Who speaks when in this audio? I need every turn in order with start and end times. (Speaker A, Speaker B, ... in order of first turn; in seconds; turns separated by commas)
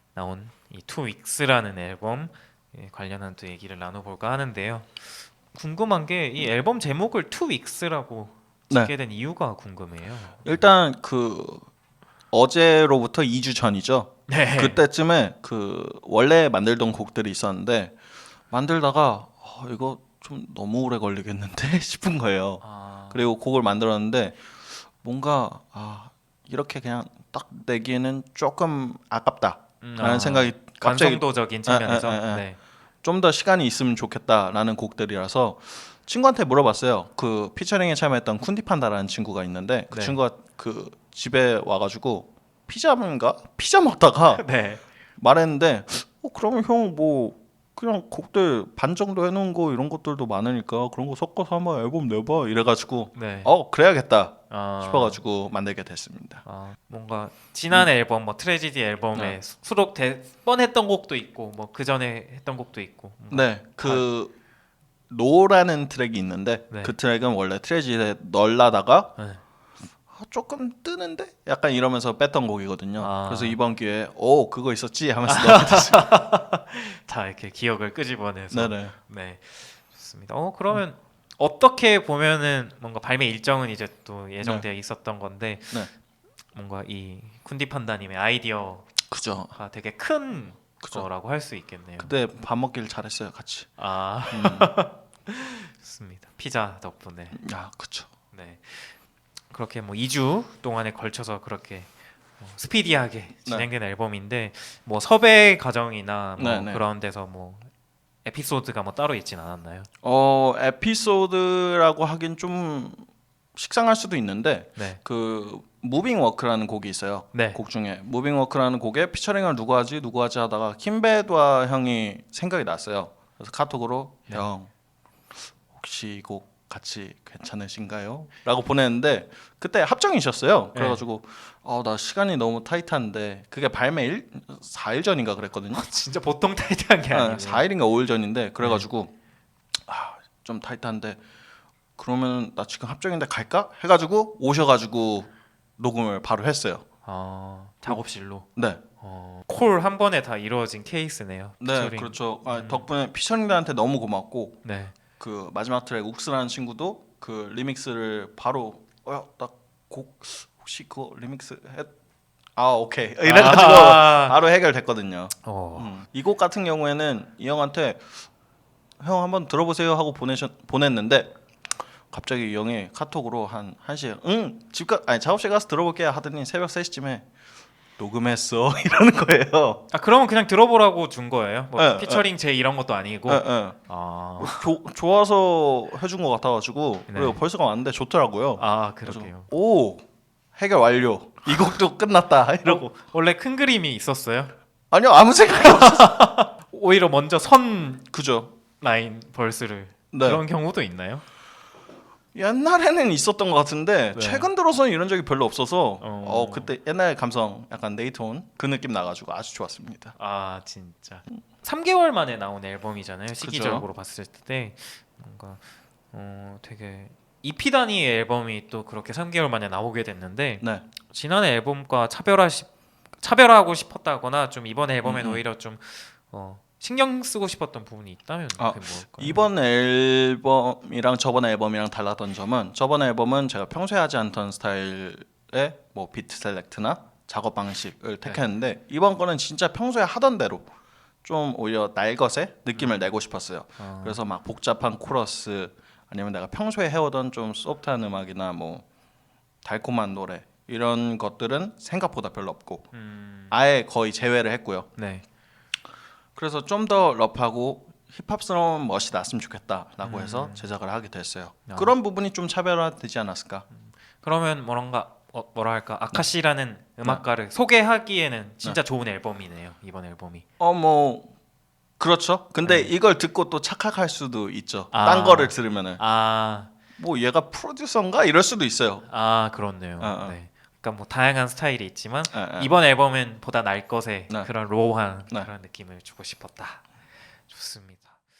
Speaker A: 0.1-10.7, Speaker B: 10.4-11.7, Speaker B: 12.3-18.0, Speaker A: 14.3-14.8, Speaker B: 18.5-32.5, Speaker A: 22.6-23.3, Speaker A: 29.8-32.6, Speaker B: 33.0-44.5, Speaker A: 39.9-40.2, Speaker A: 44.3-44.9, Speaker B: 45.2-56.4, Speaker A: 53.1-53.5, Speaker A: 54.5-55.2, Speaker A: 56.5-64.1, Speaker B: 63.3-64.4, Speaker B: 65.1-69.2, Speaker B: 70.1-76.0, Speaker A: 73.0-73.6, Speaker A: 75.3-85.9, Speaker B: 78.5-79.0, Speaker A: 86.5-89.0, Speaker B: 89.1-89.6, Speaker A: 89.5-92.2, Speaker B: 90.8-91.1, Speaker B: 92.0-93.7, Speaker A: 93.8-97.4, Speaker B: 94.3-94.8, Speaker B: 97.3-98.1, Speaker A: 98.3-99.0, Speaker A: 99.5-107.7, Speaker B: 106.4-106.8, Speaker A: 108.2-109.9, Speaker B: 110.0-124.7, Speaker A: 117.3-117.6, Speaker B: 125.7-135.9, Speaker A: 130.7-131.0, Speaker A: 135.7-137.7, Speaker B: 137.1-139.1, Speaker A: 138.6-138.9, Speaker B: 139.7-141.2, Speaker B: 142.0-146.8, Speaker A: 147.1-148.5, Speaker B: 148.6-148.8, Speaker A: 149.0-152.9, Speaker B: 151.6-154.6, Speaker A: 154.6-154.9, Speaker B: 155.2-161.9, Speaker B: 162.6-168.1, Speaker A: 163.2-164.4, Speaker A: 165.4-165.9, Speaker B: 169.0-171.4, Speaker B: 172.1-177.3, Speaker B: 178.0-179.8, Speaker A: 179.9-184.6, Speaker B: 181.8-182.3, Speaker B: 183.3-183.8, Speaker B: 184.4-190.0, Speaker A: 187.1-187.4, Speaker A: 188.6-189.5, Speaker B: 190.6-192.9, Speaker A: 192.6-194.5, Speaker B: 194.9-196.2, Speaker A: 195.5-198.1, Speaker B: 198.1-198.5, Speaker A: 198.8-201.2, Speaker B: 200.1-200.4, Speaker B: 202.3-210.2, Speaker A: 204.1-204.5, Speaker A: 206.0-206.7, Speaker A: 210.2-222.7, Speaker B: 213.4-213.9, Speaker B: 220.6-220.9, Speaker A: 223.2-229.5, Speaker B: 225.0-225.4, Speaker B: 228.6-240.7, Speaker B: 241.2-248.8, Speaker A: 242.8-243.1, Speaker A: 243.8-244.2, Speaker B: 249.6-252.9, Speaker A: 252.9-253.6, Speaker B: 253.5-254.9, Speaker A: 255.0-255.2, Speaker B: 256.4-263.7, Speaker A: 260.0-260.7, Speaker A: 261.7-261.9, Speaker A: 263.7-270.4, Speaker B: 270.6-271.3, Speaker B: 272.0-276.0, Speaker A: 272.6-272.9, Speaker A: 274.9-276.7, Speaker B: 277.0-279.1, Speaker A: 279.1-286.9, Speaker B: 280.0-280.4, Speaker B: 282.3-282.7, Speaker A: 287.5-288.2